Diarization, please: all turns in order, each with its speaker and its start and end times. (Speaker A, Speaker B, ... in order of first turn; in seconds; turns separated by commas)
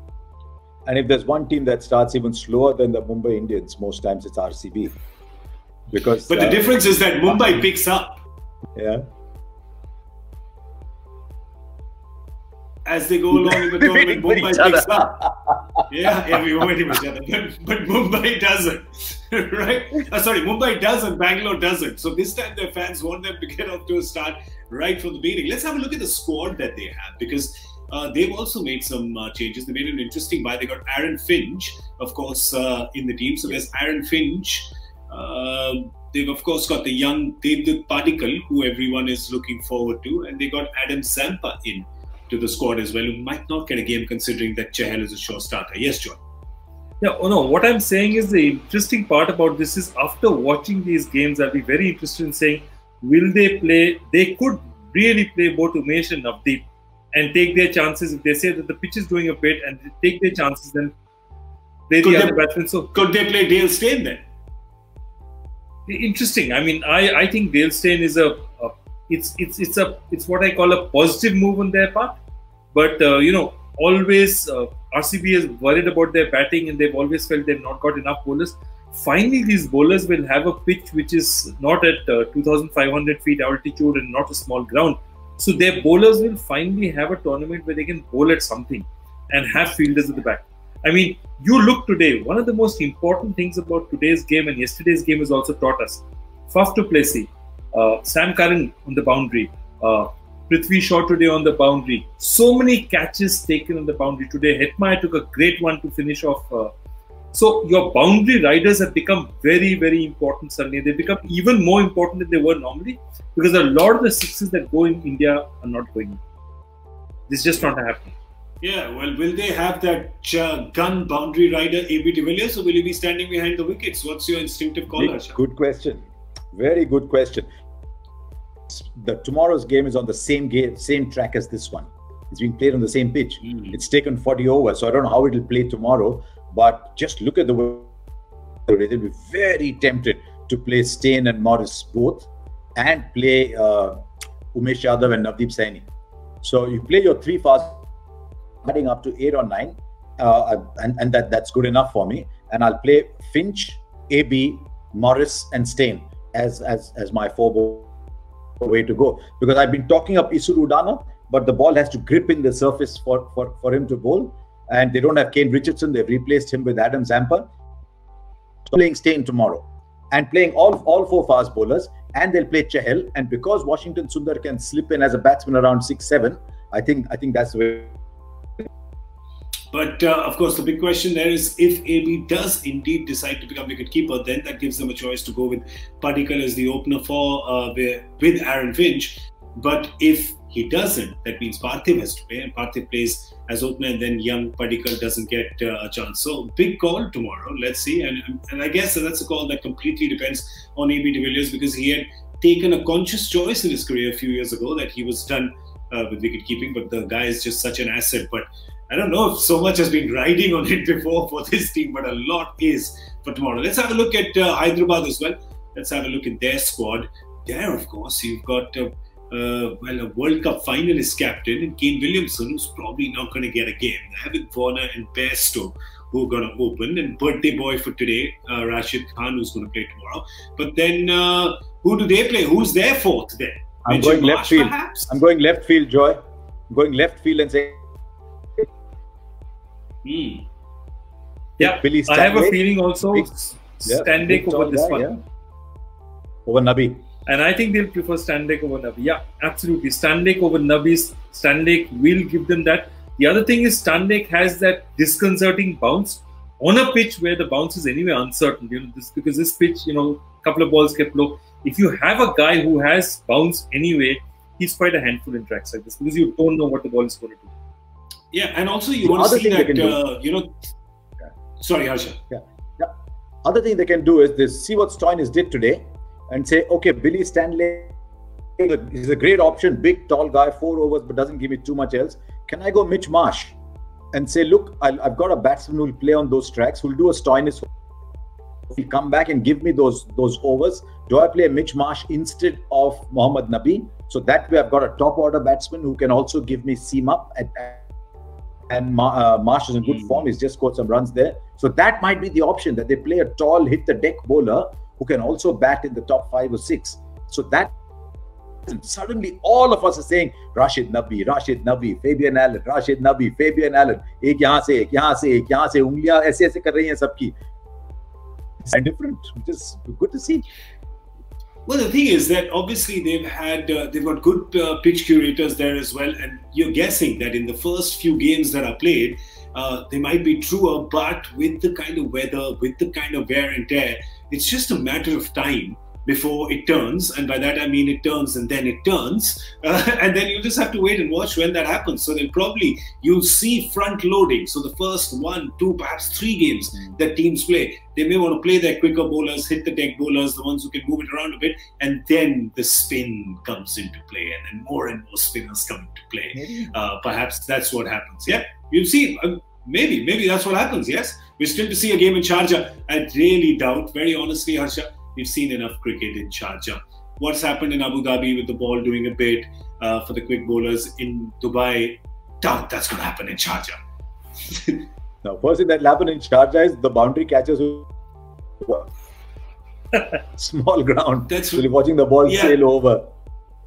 Speaker A: 0.9-4.9, Speaker A: 5.9-6.6, Speaker B: 6.3-8.2, Speaker A: 8.8-9.0, Speaker B: 12.9-15.2, Speaker A: 13.3-15.5, Speaker B: 15.9-46.2, Speaker C: 47.0-61.0, Speaker C: 61.9-63.0, Speaker B: 62.0-62.4, Speaker B: 62.9-64.2, Speaker C: 65.9-72.2, Speaker C: 72.7-106.7, Speaker C: 107.3-116.2, Speaker C: 117.3-118.1, Speaker B: 118.6-125.3, Speaker A: 124.9-127.5, Speaker A: 128.7-137.9, Speaker A: 138.7-144.0, Speaker A: 144.5-145.8, Speaker A: 146.4-147.8, Speaker A: 148.6-157.9, Speaker A: 158.6-167.5, Speaker A: 168.7-177.9, Speaker B: 179.7-235.2, Speaker A: 233.9-237.8, Speaker B: 240.1-240.5, Speaker A: 241.6-243.3, Speaker C: 241.6-245.1, Speaker A: 243.8-245.2, Speaker A: 246.5-247.0, Speaker C: 247.3-267.5, Speaker B: 268.3-270.6, Speaker A: 269.0-270.0, Speaker B: 271.6-272.2, Speaker A: 272.3-272.9, Speaker A: 273.4-277.9, Speaker A: 278.6-283.6, Speaker A: 284.1-287.7, Speaker A: 288.7-297.9, Speaker A: 298.7-307.7, Speaker A: 308.7-317.4, Speaker A: 318.7-320.4, Speaker B: 321.7-373.8, Speaker A: 356.3-356.7, Speaker B: 374.5-374.9, Speaker A: 375.2-377.9, Speaker A: 378.6-378.9, Speaker A: 380.3-383.1, Speaker B: 381.3-381.6, Speaker B: 382.2-382.6